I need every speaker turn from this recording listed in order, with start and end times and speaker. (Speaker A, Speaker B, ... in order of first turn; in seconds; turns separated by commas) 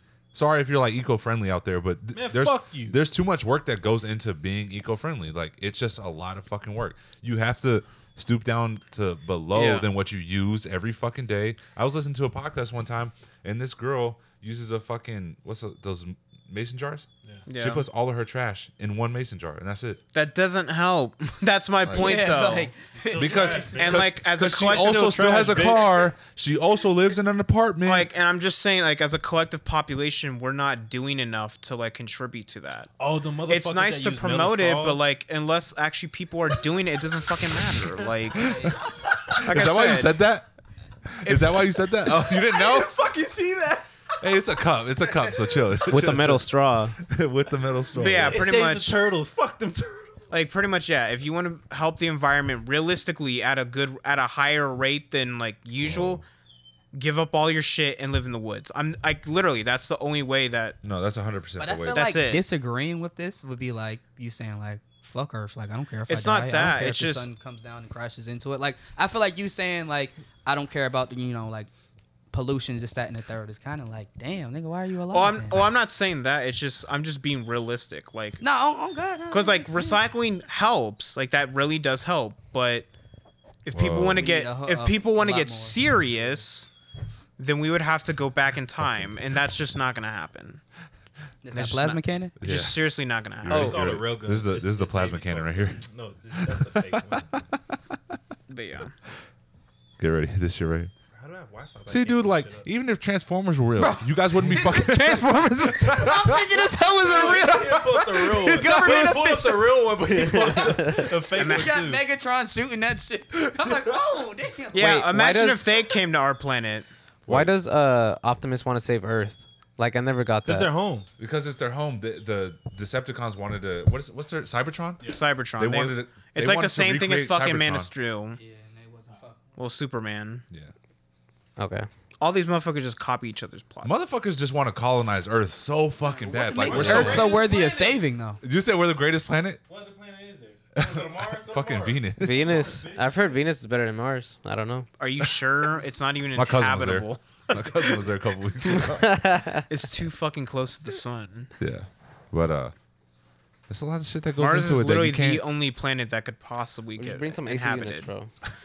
Speaker A: 0.3-20.0, Speaker B: 2.1-3.0, Speaker C: 9.5-9.9, Speaker C: 17.5-17.9, Speaker C: 20.1-22.7, Speaker A: 21.8-22.2, Speaker D: 21.9-23.9, Speaker B: 23.0-24.1, Speaker A: 23.1-28.1, Speaker C: 23.6-25.8, Speaker B: 24.7-26.1, Speaker C: 27.9-32.9, Speaker B: 33.0-35.0, Speaker C: 33.5-38.7, Speaker A: 38.4-40.5, Speaker C: 39.3-40.2, Speaker A: 41.1-43.0, Speaker B: 42.4-43.8, Speaker A: 44.2-46.5, Speaker E: 45.9-47.0, Speaker A: 47.0-48.4, Speaker C: 47.9-49.0, Speaker B: 48.0-50.2, Speaker C: 50.3-56.2, Speaker A: 55.8-56.2, Speaker C: 56.9-60.8, Speaker A: 60.8-62.0, Speaker D: 61.6-71.7, Speaker C: 61.9-62.4, Speaker C: 66.1-67.3, Speaker D: 72.3-75.7, Speaker C: 75.1-78.4, Speaker D: 78.4-80.0, Speaker C: 79.3-82.9, Speaker C: 83.7-86.7, Speaker A: 83.7-84.3, Speaker D: 84.1-85.8, Speaker C: 87.4-90.6, Speaker A: 88.8-89.1, Speaker D: 91.4-92.3, Speaker C: 91.5-93.8, Speaker A: 92.4-92.8, Speaker A: 93.4-97.8, Speaker E: 93.5-93.8, Speaker B: 93.5-97.3, Speaker C: 98.5-99.0, Speaker A: 100.0-100.9, Speaker B: 101.1-102.7, Speaker A: 101.9-106.6, Speaker D: 103.8-115.0, Speaker B: 107.0-112.0, Speaker C: 111.3-111.8, Speaker C: 114.7-116.9, Speaker E: 114.8-115.7, Speaker A: 117.3-117.5, Speaker E: 117.3-120.7, Speaker B: 120.5-121.1, Speaker A: 121.2-127.9, Speaker C: 125.1-128.4, Speaker D: 128.4-129.4, Speaker C: 129.6-130.4, Speaker E: 131.6-131.9, Speaker C: 132.2-134.0, Speaker A: 133.8-137.4, Speaker D: 136.1-138.4, Speaker B: 136.5-138.0, Speaker E: 136.8-137.1, Speaker A: 138.4-139.6, Speaker B: 139.7-143.1, Speaker A: 140.8-142.6, Speaker E: 142.2-144.9, Speaker C: 145.0-148.0, Speaker A: 146.3-149.2, Speaker E: 148.7-149.7, Speaker C: 149.7-151.5, Speaker A: 151.6-152.7, Speaker A: 153.7-155.4, Speaker C: 154.4-158.1, Speaker E: 157.0-158.3